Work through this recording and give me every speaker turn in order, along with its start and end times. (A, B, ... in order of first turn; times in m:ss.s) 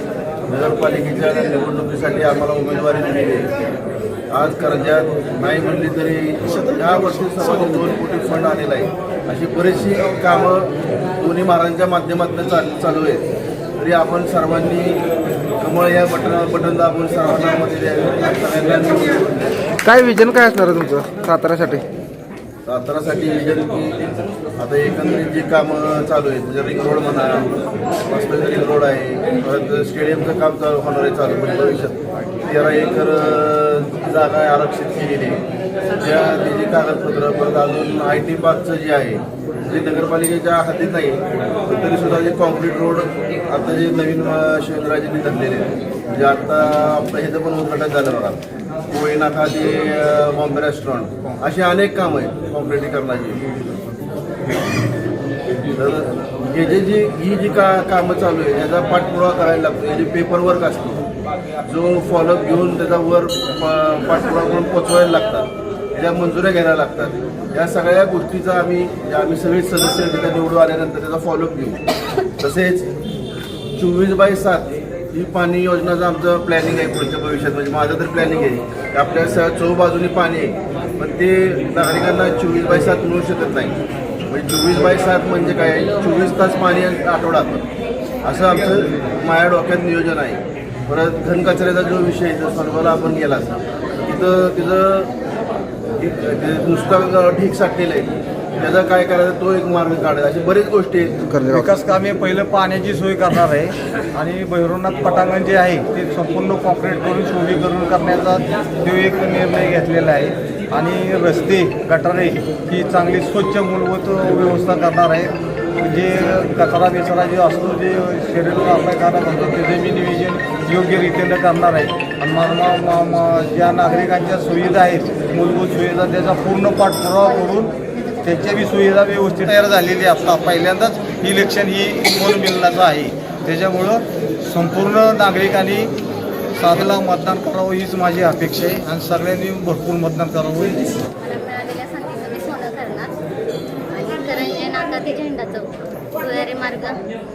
0:00.5-0:03.5 A
0:04.3-0:13.2 A
0:13.8-0:15.0 A
0:15.6-0:19.5 A
0:19.8-0:21.8 B
0:22.6-0:27.5 A
0:28.0-0:35.4 A
0:36.0-0:53.4 A
0:55.7-1:01.0 A
1:01.6-1:11.8 A
1:12.4-1:12.9 A
1:13.8-1:23.8 A
1:24.3-1:27.7 A
1:28.2-1:35.1 A
1:36.0-1:41.2 A
1:41.2-1:41.7 B
1:41.5-2:07.7 C
2:08.2-2:15.9 C
2:16.6-2:20.8 C
2:21.2-2:23.1 D
2:23.9-2:27.0 D